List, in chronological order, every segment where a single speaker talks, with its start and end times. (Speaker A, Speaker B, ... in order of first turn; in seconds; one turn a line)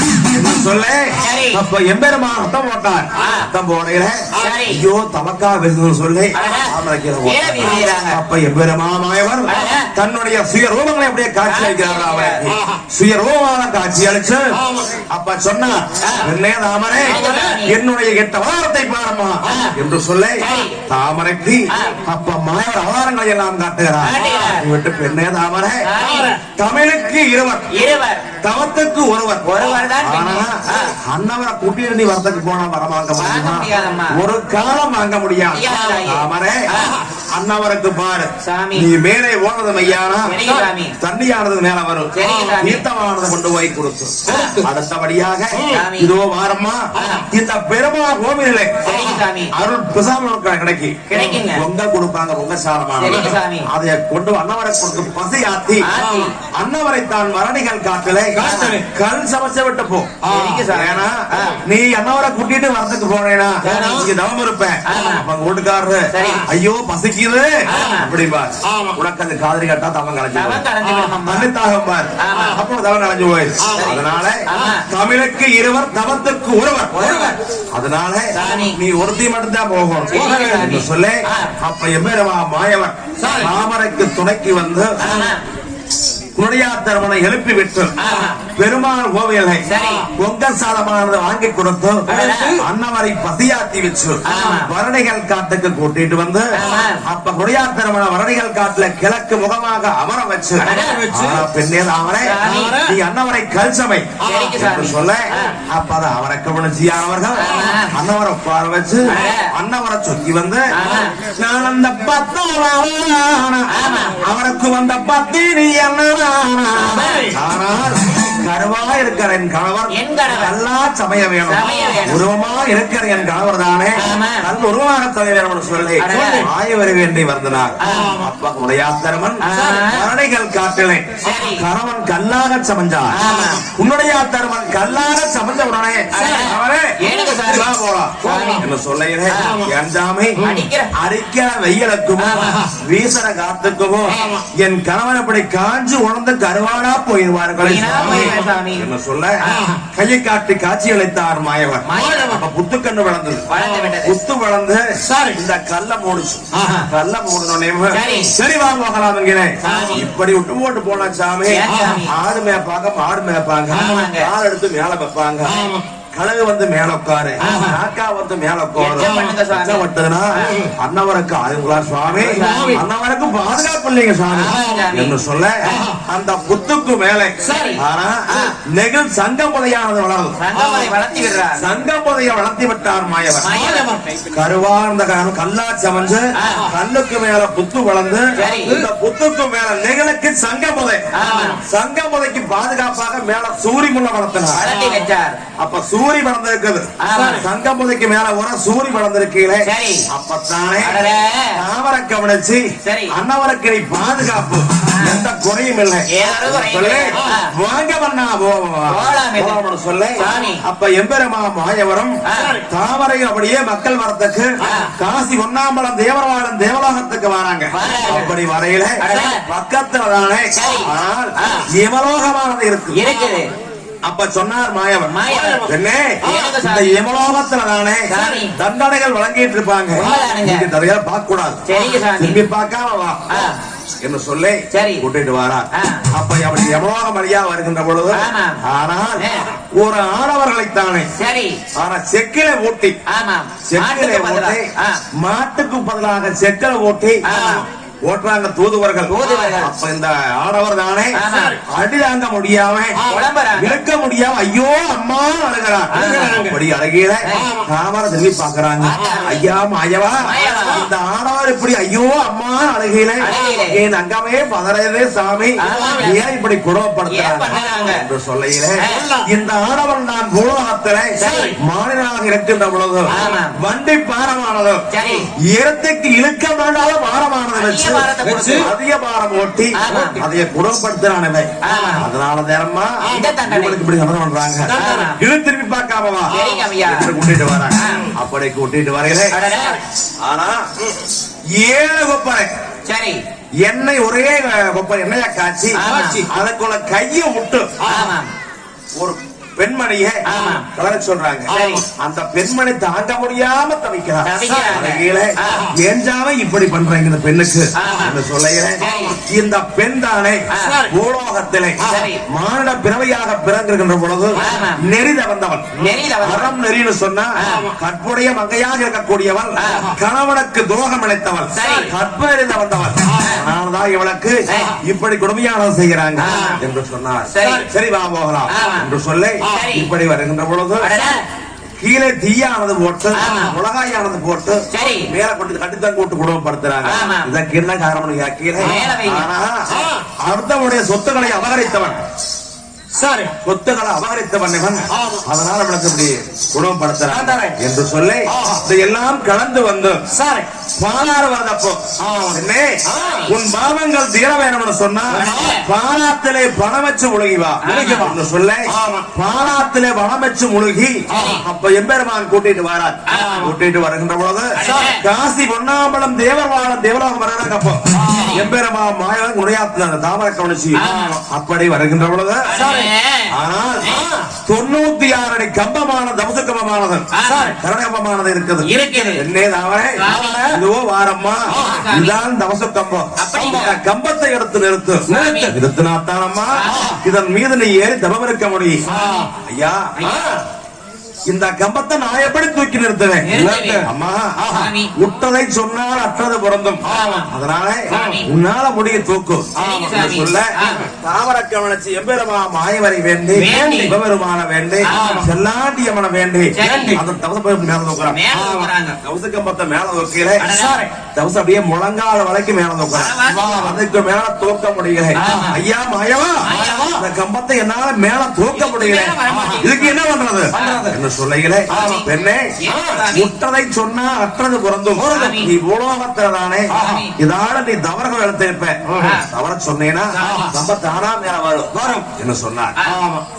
Speaker A: 0.3-14.5
Speaker B: 1.2-1.6
Speaker B: 3.2-3.5
Speaker B: 4.3-4.8
Speaker B: 6.3-6.7
Speaker B: 7.2-8.2
Speaker B: 9.4-9.9
Speaker B: 11.4-12.4
Speaker C: 14.6-14.9
Speaker A: 15.1-25.8
Speaker B: 16.0-16.3
Speaker B: 17.1-17.8
Speaker C: 17.1-17.6
Speaker B: 19.4-19.8
Speaker B: 20.4-20.7
Speaker B: 21.7-21.9
Speaker B: 24.0-24.6
Speaker B: 25.8-26.3
Speaker C: 26.0-26.4
Speaker A: 26.5-27.7
Speaker B: 27.7-28.3
Speaker A: 28.4-29.5
Speaker B: 29.4-30.9
Speaker A: 30.0-36.7
Speaker B: 33.2-34.2
Speaker B: 35.5-37.0
Speaker A: 37.2-40.4
Speaker B: 38.4-38.9
Speaker B: 40.2-41.0
Speaker A: 41.0-48.9
Speaker B: 42.1-42.8
Speaker C: 42.2-42.5
Speaker B: 44.3-44.6
Speaker C: 44.3-44.6
Speaker B: 45.7-46.1
Speaker B: 47.0-47.2
Speaker B: 48.8-49.5
Speaker A: 49.5-55.8
Speaker B: 51.1-51.6
Speaker B: 53.0-53.7
Speaker B: 55.8-56.3
Speaker C: 56.0-56.3
Speaker A: 56.5-60.2
Speaker C: 58.3-58.8
Speaker B: 58.4-58.8
Speaker C: 60.2-60.6
Speaker B: 60.3-61.6
Speaker A: 60.7-70.7
Speaker B: 63.6-64.1
Speaker B: 64.8-65.2
Speaker B: 66.1-66.5
Speaker B: 67.7-68.1
Speaker C: 68.7-69.0
Speaker B: 70.3-71.5
Speaker C: 70.8-71.1
Speaker A: 71.2-85.0
Speaker B: 72.2-72.6
Speaker B: 73.7-74.8
Speaker B: 76.9-77.3
Speaker B: 78.3-78.8
Speaker B: 80.1-81.5
Speaker C: 80.2-80.6
Speaker C: 83.2-83.5
Speaker B: 85.0-85.4
Speaker A: 86.3-87.9
Speaker B: 88.0-88.4
Speaker A: 88.5-96.5
Speaker B: 89.7-90.1
Speaker B: 92.1-92.6
Speaker C: 92.1-92.6
Speaker B: 94.2-94.7
Speaker B: 96.5-97.0
Speaker A: 97.0-110.7
Speaker B: 100.6-101.0
Speaker C: 100.6-101.4
Speaker B: 102.2-102.8
Speaker C: 102.4-103.0
Speaker C: 104.2-104.5
Speaker B: 104.2-105.5
Speaker B: 107.3-107.9
Speaker B: 109.0-109.5
Speaker B: 110.7-111.2
Speaker A: 111.3-133.2
Speaker B: 113.7-114.2
Speaker B: 116.8-117.3
Speaker C: 117.0-117.3
Speaker B: 119.9-120.6
Speaker B: 121.4-122.2
Speaker B: 124.0-124.5
Speaker B: 126.0-126.5
Speaker B: 127.8-128.2
Speaker C: 127.9-128.3
Speaker B: 129.4-130.1
Speaker B: 131.2-131.6
Speaker B: 133.1-133.6
Speaker A: 133.7-140.4
Speaker B: 136.1-137.7
Speaker B: 138.2-138.6
Speaker C: 138.3-138.6
Speaker B: 139.3-139.6
Speaker C: 139.4-139.7
Speaker B: 140.4-140.9
Speaker A: 141.0-149.4
Speaker B: 142.2-142.6
Speaker C: 142.4-142.7
Speaker B: 144.1-144.4
Speaker C: 144.1-144.4
Speaker B: 147.6-148.9
Speaker C: 148.0-148.4
Speaker C: 149.5-149.8
Speaker A: 149.9-153.5
Speaker B: 151.8-152.3
Speaker C: 151.9-152.4
Speaker B: 153.5-154.1
Speaker C: 153.6-153.9
Speaker A: 154.0-165.6
Speaker C: 155.0-155.4
Speaker C: 156.5-156.9
Speaker B: 157.9-158.3
Speaker B: 159.6-160.1
Speaker C: 159.7-160.0
Speaker B: 161.5-162.1
Speaker C: 161.7-162.0
Speaker B: 163.7-164.3
Speaker C: 165.5-165.8
Speaker A: 166.1-180.4
Speaker B: 167.4-167.8
Speaker C: 167.4-167.7
Speaker B: 168.8-170.6
Speaker C: 169.0-169.3
Speaker C: 170.4-170.7
Speaker B: 172.1-172.8
Speaker C: 172.3-172.8
Speaker B: 174.4-175.8
Speaker C: 174.5-174.8
Speaker C: 175.7-176.0
Speaker C: 177.4-177.8
Speaker B: 177.4-177.8
Speaker B: 178.3-178.5
Speaker B: 180.4-181.7
Speaker C: 180.5-180.9
Speaker A: 181.5-183.5
Speaker B: 183.4-183.9
Speaker C: 183.5-184.2
Speaker A: 184.3-191.1
Speaker B: 186.4-186.7
Speaker B: 188.3-188.8
Speaker C: 188.4-188.7
Speaker B: 191.1-191.6
Speaker C: 191.3-191.5
Speaker A: 191.6-194.6
Speaker B: 194.5-195.4
Speaker A: 195.6-201.0
Speaker B: 197.0-197.4
Speaker C: 197.1-197.4
Speaker B: 199.6-200.1
Speaker B: 200.8-201.6
Speaker A: 201.5-223.0
Speaker B: 202.8-203.1
Speaker B: 204.9-205.2
Speaker B: 206.1-207.5
Speaker B: 208.9-209.6
Speaker B: 210.2-210.6
Speaker B: 212.2-212.6
Speaker C: 212.4-212.6
Speaker B: 214.6-214.9
Speaker B: 217.7-218.3
Speaker B: 219.0-219.4
Speaker B: 220.5-221.7
Speaker B: 222.9-223.5
Speaker A: 224.0-233.5
Speaker B: 225.1-225.7
Speaker B: 226.2-227.0
Speaker C: 226.2-226.5
Speaker B: 228.1-228.6
Speaker B: 229.9-230.7
Speaker B: 231.7-232.4
Speaker B: 233.3-233.6
Speaker A: 234.0-241.1
Speaker B: 234.7-235.0
Speaker B: 235.7-236.0
Speaker B: 238.1-238.6
Speaker B: 239.2-239.5
Speaker B: 241.2-241.6
Speaker A: 241.8-243.0
Speaker B: 243.1-245.0
Speaker A: 243.7-247.2
Speaker B: 247.2-247.6
Speaker C: 247.3-247.6
Speaker A: 248.1-253.0
Speaker B: 249.1-249.7
Speaker B: 251.1-251.6
Speaker C: 251.3-251.6
Speaker B: 253.1-253.8
Speaker A: 253.5-274.8
Speaker B: 255.9-256.4
Speaker C: 255.9-256.6
Speaker B: 257.2-257.5
Speaker C: 257.3-257.7
Speaker B: 258.8-259.4
Speaker B: 260.2-260.9
Speaker C: 260.4-260.8
Speaker B: 263.2-263.8
Speaker B: 265.6-266.2
Speaker C: 265.7-266.1
Speaker B: 267.1-268.0
Speaker B: 268.8-269.1
Speaker C: 268.9-269.3
Speaker B: 271.2-271.5
Speaker B: 273.1-273.6
Speaker B: 274.9-275.3
Speaker A: 275.4-289.3
Speaker B: 277.5-278.7
Speaker C: 278.2-278.7
Speaker B: 279.8-280.2
Speaker C: 279.9-280.1
Speaker B: 281.6-282.1
Speaker B: 283.1-283.8
Speaker C: 284.7-285.1
Speaker B: 284.7-285.2
Speaker B: 286.3-287.1
Speaker B: 287.7-288.1
Speaker B: 289.3-289.8
Speaker A: 290.2-290.7
Speaker A: 291.6-292.5
Speaker B: 292.9-293.2
Speaker A: 293.6-297.8
Speaker B: 295.7-296.2
Speaker C: 295.9-296.2
Speaker C: 297.8-298.1
Speaker B: 297.9-298.3
Speaker A: 299.0-330.9
Speaker B: 300.2-300.6
Speaker B: 301.5-301.8
Speaker C: 301.5-301.8
Speaker B: 304.2-305.7
Speaker C: 304.4-304.7
Speaker B: 307.8-308.2
Speaker B: 308.8-309.2
Speaker B: 310.5-310.8
Speaker C: 310.6-310.9
Speaker B: 311.8-312.2
Speaker B: 314.4-314.8
Speaker B: 315.8-316.5
Speaker B: 317.4-317.7
Speaker C: 317.4-317.7
Speaker B: 319.6-319.9
Speaker C: 321.5-321.9
Speaker B: 321.5-321.9
Speaker C: 323.1-323.3
Speaker B: 324.5-324.8
Speaker B: 326.2-326.6
Speaker C: 326.2-326.6
Speaker B: 327.3-327.7
Speaker B: 328.5-328.9
Speaker B: 329.4-329.9
Speaker B: 330.8-331.2
Speaker A: 331.8-339.6
Speaker B: 333.1-333.5
Speaker B: 334.7-335.1
Speaker B: 336.8-337.3
Speaker B: 338.6-339.3
Speaker C: 338.6-338.9
Speaker C: 339.7-340.1
Speaker A: 340.2-342.0
Speaker C: 342.9-343.3
Speaker A: 343.4-350.0
Speaker C: 344.9-345.2
Speaker C: 347.1-347.6
Speaker C: 348.3-348.6
Speaker C: 350.1-350.5
Speaker A: 350.8-372.5
Speaker C: 352.0-353.3
Speaker B: 352.9-353.3
Speaker C: 355.1-355.5
Speaker B: 355.2-355.6
Speaker B: 357.6-358.1
Speaker C: 357.8-358.1
Speaker C: 358.7-359.1
Speaker B: 361.1-361.4
Speaker C: 361.1-361.4
Speaker B: 363.1-363.5
Speaker C: 363.1-363.5
Speaker B: 364.6-365.0
Speaker C: 364.6-364.9
Speaker C: 367.9-368.5
Speaker B: 370.8-371.2
Speaker C: 370.8-371.2
Speaker B: 372.5-373.3
Speaker C: 372.5-372.9
Speaker A: 373.3-373.9
Speaker B: 373.8-374.1
Speaker C: 373.9-374.3
Speaker A: 374.4-388.8
Speaker B: 377.1-377.6
Speaker C: 377.2-377.6
Speaker B: 378.6-379.2
Speaker C: 378.8-379.2
Speaker B: 379.9-380.5
Speaker C: 380.1-380.6
Speaker C: 381.5-381.8
Speaker B: 381.6-382.2
Speaker B: 383.2-383.7
Speaker C: 383.4-383.7
Speaker C: 385.1-385.5
Speaker B: 385.1-385.5
Speaker B: 386.5-386.9
Speaker C: 386.7-387.0
Speaker C: 388.9-389.3
Speaker B: 388.9-389.2
Speaker A: 389.4-389.9
Speaker B: 390.0-390.3
Speaker C: 390.0-390.4
Speaker A: 391.3-393.3
Speaker B: 393.2-393.9
Speaker C: 393.3-393.9
Speaker A: 393.8-394.4
Speaker C: 394.4-394.7
Speaker B: 394.5-394.9
Speaker A: 394.9-400.5
Speaker C: 396.8-397.3
Speaker B: 397.9-398.3
Speaker C: 397.9-398.2
Speaker B: 399.6-400.9
Speaker C: 399.6-399.9
Speaker C: 400.6-400.9
Speaker A: 401.0-408.2
Speaker B: 403.4-403.9
Speaker C: 403.4-403.9
Speaker B: 404.9-405.3
Speaker C: 404.9-405.3
Speaker B: 406.5-407.0
Speaker C: 406.6-407.0
Speaker B: 408.1-409.0
Speaker C: 408.3-408.7
Speaker A: 409.0-410.4
Speaker B: 410.4-410.9
Speaker C: 410.5-410.9
Speaker A: 411.1-416.4
Speaker B: 412.9-413.7
Speaker C: 413.3-413.8
Speaker B: 415.1-415.6
Speaker C: 415.2-415.5
Speaker B: 416.4-416.9
Speaker C: 416.5-417.0
Speaker A: 416.9-422.5
Speaker B: 418.5-420.0
Speaker C: 419.3-419.6
Speaker B: 420.5-420.9
Speaker C: 420.5-420.9
Speaker B: 421.7-422.1
Speaker C: 421.7-422.0
Speaker B: 422.6-423.3
Speaker C: 422.7-423.0
Speaker A: 423.1-432.8
Speaker C: 425.0-425.3
Speaker B: 425.1-425.5
Speaker B: 426.7-427.1
Speaker C: 426.7-427.0
Speaker C: 428.9-429.2
Speaker B: 429.0-429.3
Speaker B: 430.1-430.5
Speaker C: 430.2-430.5
Speaker C: 431.7-432.1
Speaker B: 432.8-433.0
Speaker C: 432.9-433.2